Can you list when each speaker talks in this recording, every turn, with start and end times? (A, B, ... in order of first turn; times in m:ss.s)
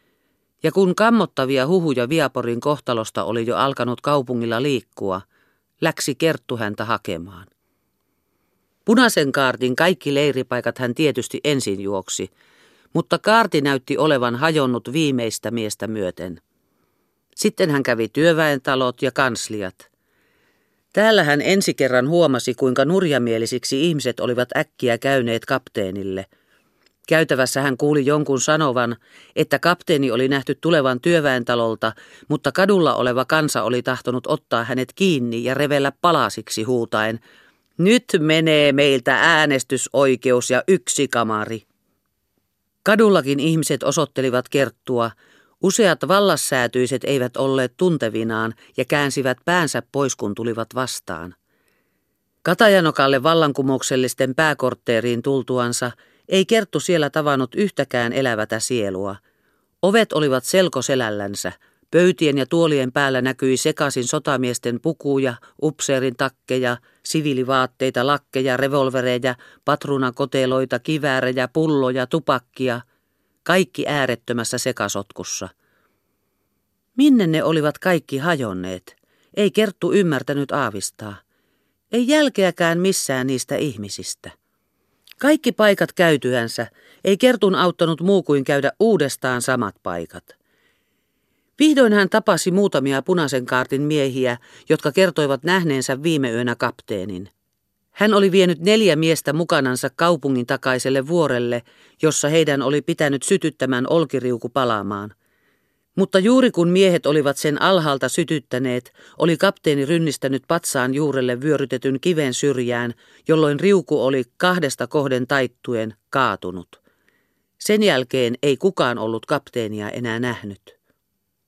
0:00.6-0:05.2 A
0:05.8-0:07.5 A
0:08.8-0:12.3 A
0:12.9-0:16.4 A
0:17.4-0:19.9 A
0:20.9-0:26.3 A
0:27.1-0:37.2 A
0:37.8-0:41.6 A
0:42.8-0:51.4 A
0:52.4-0:59.2 A
0:59.8-1:12.8 A
1:13.4-1:15.5 A
1:17.0-1:21.2 A
1:21.9-1:24.3 A
1:25.2-1:30.4 A
1:31.6-1:37.3 A
1:37.9-1:45.1 A
1:46.0-1:56.8 A
1:57.6-2:00.7 A